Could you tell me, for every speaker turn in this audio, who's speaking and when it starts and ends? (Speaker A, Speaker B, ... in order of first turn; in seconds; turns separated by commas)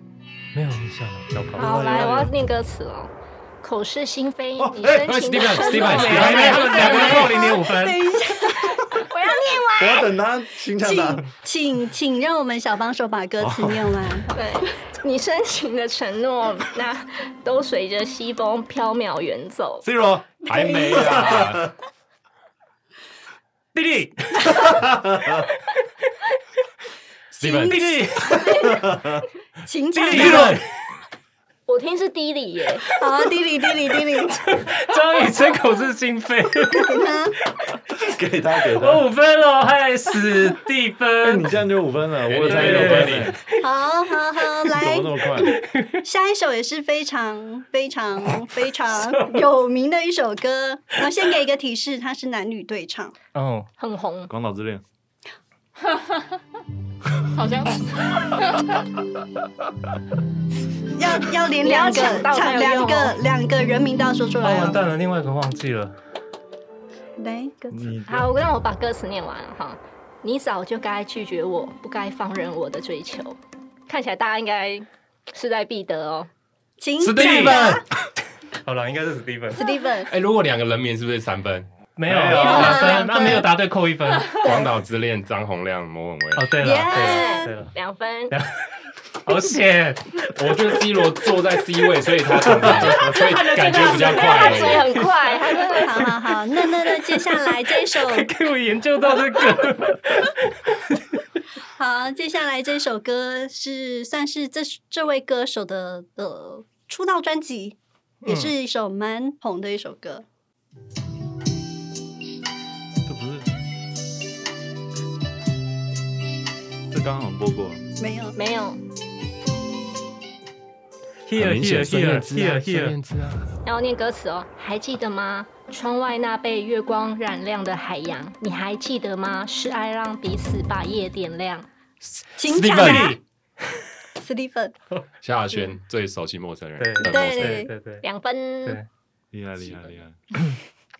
Speaker A: 0.5-2.3, Speaker B: 1.6-7.2, Speaker C: 4.6-6.6, Speaker D: 4.9-7.4, Speaker A: 5.8-8.0, Speaker E: 6.6-9.1, Speaker B: 8.8-10.2, Speaker C: 9.8-11.3, Speaker E: 10.8-14.5, Speaker C: 13.4-14.2, Speaker B: 14.3-19.8, Speaker C: 19.8-21.7, Speaker D: 20.4-21.7, Speaker E: 20.5-21.1, Speaker A: 23.7-24.8, Speaker C: 24.5-25.4, Speaker E: 27.3-28.8, Speaker D: 27.4-28.0, Speaker A: 27.6-28.6, Speaker C: 28.6-29.2, Speaker E: 29.6-30.6, Speaker A: 29.9-30.7, Speaker C: 30.1-30.5, Speaker B: 31.7-32.9, Speaker E: 32.9-34.4, Speaker A: 34.3-37.0, Speaker E: 36.7-37.3, Speaker C: 37.9-39.0, Speaker A: 38.8-41.5, Speaker C: 41.2-43.4, Speaker D: 42.2-43.4, Speaker A: 42.4-43.3, Speaker E: 43.6-53.1, Speaker C: 44.7-45.6, Speaker A: 45.5-45.9, Speaker A: 49.0-49.4, Speaker A: 53.3-53.7, Speaker B: 53.8-54.3, Speaker C: 54.3-54.8, Speaker F: 55.8-56.3, Speaker F: 57.3-58.5, Speaker E: 60.9-64.8, Speaker B: 61.6-63.2, Speaker A: 64.4-66.0, Speaker E: 67.2-68.0, Speaker C: 67.7-68.3, Speaker B: 68.1-76.3, Speaker E: 76.8-77.8, Speaker D: 77.0-77.6, Speaker A: 77.0-77.8, Speaker A: 78.6-79.6, Speaker E: 79.5-80.1, Speaker D: 80.1-81.8, Speaker A: 82.0-84.6, Speaker C: 82.1-83.1, Speaker E: 82.3-83.5, Speaker B: 82.7-83.0, Speaker D: 84.3-86.6, Speaker A: 86.3-87.7, Speaker E: 86.6-87.5, Speaker B: 86.9-88.3, Speaker A: 88.3-90.3, Speaker D: 90.4-95.0, Speaker A: 92.7-94.2, Speaker F: 93.2-94.7, Speaker B: 94.1-96.1, Speaker E: 95.8-98.3, Speaker A: 96.7-101.2, Speaker E: 101.8-110.2, Speaker A: 108.2-108.5, Speaker C: 113.0-113.5, Speaker C: 116.9-117.8, Speaker E: 118.0-118.4, Speaker B: 118.3-118.8, Speaker A: 121.3-123.0, Speaker D: 121.4-123.4, Speaker C: 121.4-122.4, Speaker B: 123.6-131.7, Speaker E: 132.4-133.2, Speaker D: 132.4-133.2, Speaker A: 132.6-133.2, Speaker E: 134.2-134.7, Speaker D: 135.2-137.7, Speaker A: 136.8-138.0, Speaker E: 137.0-137.7, Speaker B: 138.0-138.8, Speaker C: 139.3-140.2, Speaker D: 139.6-140.0